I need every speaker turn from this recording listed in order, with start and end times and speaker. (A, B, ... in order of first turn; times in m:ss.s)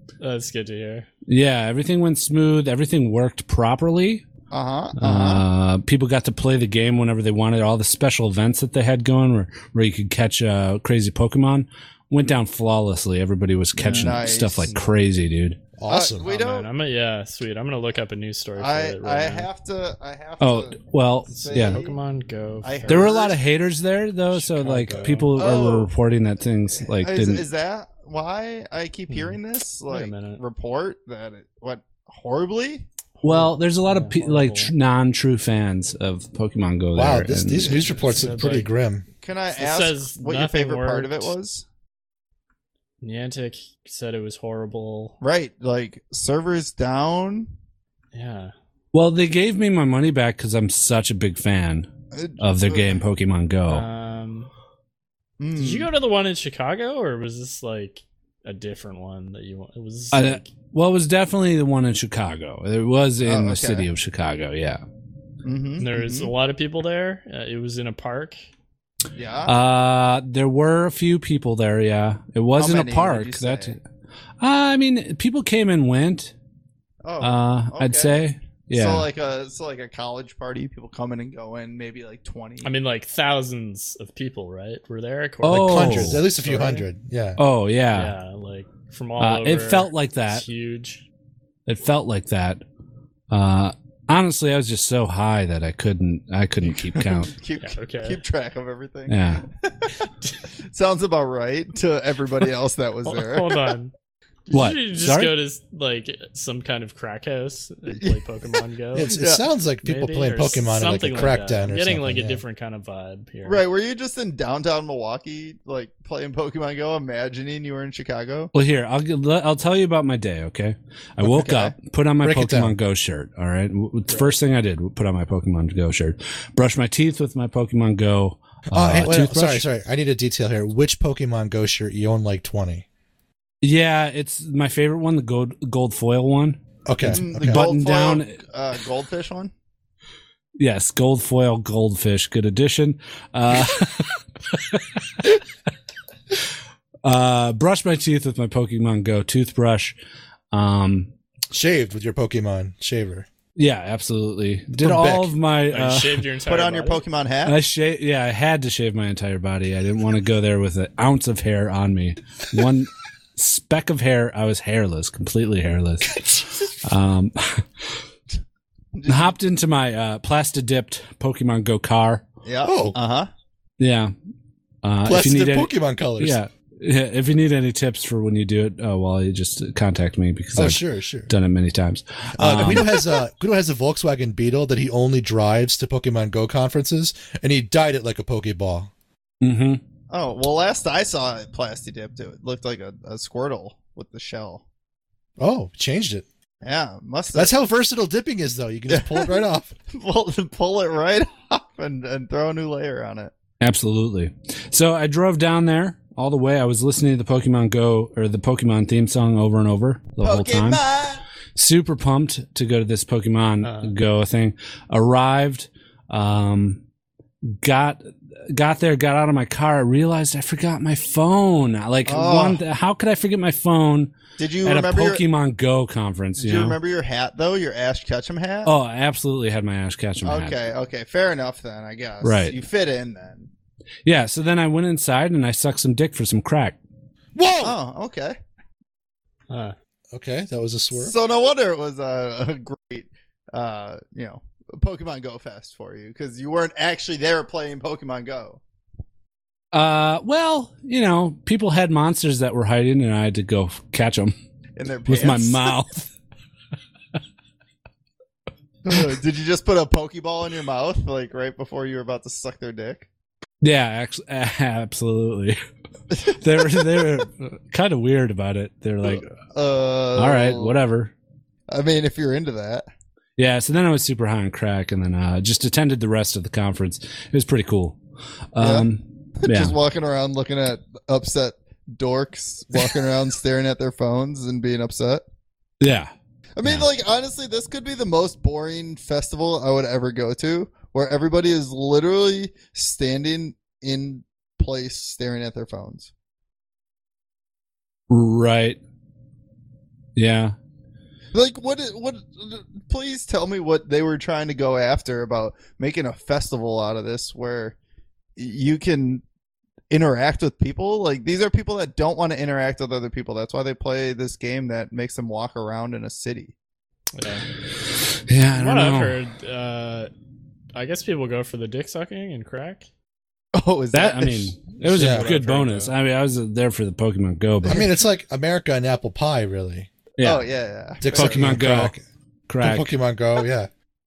0:00.2-0:01.1 A
0:01.3-0:04.2 B
0:04.5-0:05.4 C
0:05.0-0:15.6 B
0:13.8-0:14.9 A
0:13.9-0:14.7 C
0:15.8-0:16.2 D
0:15.9-0:16.7 C
0:16.2-0:19.5 A
0:18.6-0:22.0 C
0:20.4-0:21.8 B
0:21.4-0:23.1 A
0:22.6-0:23.4 C
0:22.9-0:27.4 B
0:24.3-0:25.3 D
0:24.9-0:25.3 A
0:25.4-0:25.9 C
0:27.0-0:32.8 C
0:29.1-0:30.4 A
0:33.2-0:34.7 A
0:33.2-0:37.8 B
0:36.9-0:39.0 D
0:37.6-0:38.7 A
0:39.2-0:41.6 C
0:39.6-0:41.3 A
0:43.0-0:45.2 A
0:45.2-0:47.5 C
0:48.1-0:48.5 A
0:48.9-0:53.8 B
0:52.1-0:53.0 C
0:53.7-0:54.5 A
0:55.4-0:55.9 C
0:55.5-1:00.5 A
1:00.1-1:04.8 B
1:03.2-1:03.9 C
1:05.4-1:06.3 C
1:05.8-1:08.4 A
1:09.2-1:09.6 C
1:09.4-1:13.8 B
1:12.6-1:13.8 C
1:14.4-1:16.3 B
1:17.0-1:22.7 C
1:17.2-1:19.1 B
1:22.6-1:26.9 A
1:25.4-1:26.2 B
1:25.4-1:27.4 D
1:27.4-1:28.1 B
1:27.9-1:31.0 A
1:29.2-1:30.4 B
1:31.6-1:32.6 B
1:33.3-1:37.3 B
1:36.8-1:40.1 C
1:37.6-1:38.2 A
1:39.1-1:39.4 B
1:40.6-1:43.7 C
1:43.0-1:43.9 A
1:44.5-1:49.2 A
1:44.5-1:45.3 B
1:47.9-1:48.2 C
1:48.9-1:52.4 D
1:49.1-1:49.4 C
1:49.8-1:53.6 A
1:53.4-1:58.5 C
1:58.5-2:09.6 B
2:01.2-2:01.7 C
2:02.2-2:02.7 D
2:08.7-2:12.8 D
2:13.6-2:18.4 B
2:16.8-2:17.6 D
2:17.0-2:19.5 C
2:20.6-2:25.4 B
2:27.0-2:29.9 B
2:30.5-2:31.1 B
2:31.5-2:33.3 D
2:33.6-2:36.2 B
2:34.8-2:35.3 D
2:35.7-2:37.0 A
2:36.4-2:37.6 C
2:37.4-2:46.2 B
2:46.8-2:48.0 B
2:48.9-2:49.3 C
2:49.0-2:52.2 B
2:52.4-2:53.3 C
2:52.6-2:53.0 D
2:53.8-2:54.1 B
2:54.8-3:03.0 B
2:55.0-2:56.4 D
3:00.6-3:01.3 D
3:02.4-3:08.9 D
3:09.4-3:09.8 B
3:10.1-3:14.6 C
3:15.4-3:16.2 D
3:16.6-3:17.5 C
3:17.3-3:19.7 D
3:18.9-3:19.4 C
3:19.9-3:23.3 C
3:23.6-3:30.8 B
3:30.2-3:31.2 C
3:31.5-3:36.8 B
3:33.6-3:33.9 A
3:37.4-3:46.8 B
3:42.0-3:42.6 C
3:44.4-3:45.2 C
3:46.4-3:48.7 C
3:48.6-3:50.6 B
3:50.2-3:53.5 C
3:52.2-3:52.6 B
3:54.0-3:56.8 B
3:57.3-3:57.8 D
3:57.6-3:58.4 C
3:59.5-3:59.7 A
4:00.1-4:01.1 D
4:00.9-4:08.6 C
4:09.7-4:14.3 B
4:14.8-4:15.7 C
4:15.1-4:16.1 B
4:18.8-4:23.1 C
4:23.6-4:25.6 B
4:26.2-4:29.3 B
4:26.3-4:26.8 C
4:29.0-4:30.7 C
4:30.2-4:31.1 B
4:31.7-4:32.8 C
4:33.4-4:38.0 B
4:38.5-4:39.8 B
4:38.6-4:38.9 C
4:39.4-4:45.2 C
4:45.8-4:46.1 B
4:46.6-4:56.1 C
4:58.1-4:58.8 B
5:00.2-5:00.5 B
5:01.3-5:07.7 C
5:08.4-5:09.2 C
5:09.9-5:16.5 C
5:17.2-5:17.5 A
5:18.3-5:19.2 B
5:18.5-5:20.1 A
5:20.7-5:22.9 A
5:23.5-5:25.9 C
5:23.9-5:27.9 B
5:24.9-5:25.3 D
5:27.6-5:29.9 D
5:30.2-5:30.4 B
5:30.2-5:31.6 C
5:31.0-5:32.0 D
5:31.1-5:32.0 B
5:32.5-5:32.9 B
5:32.6-5:33.7 D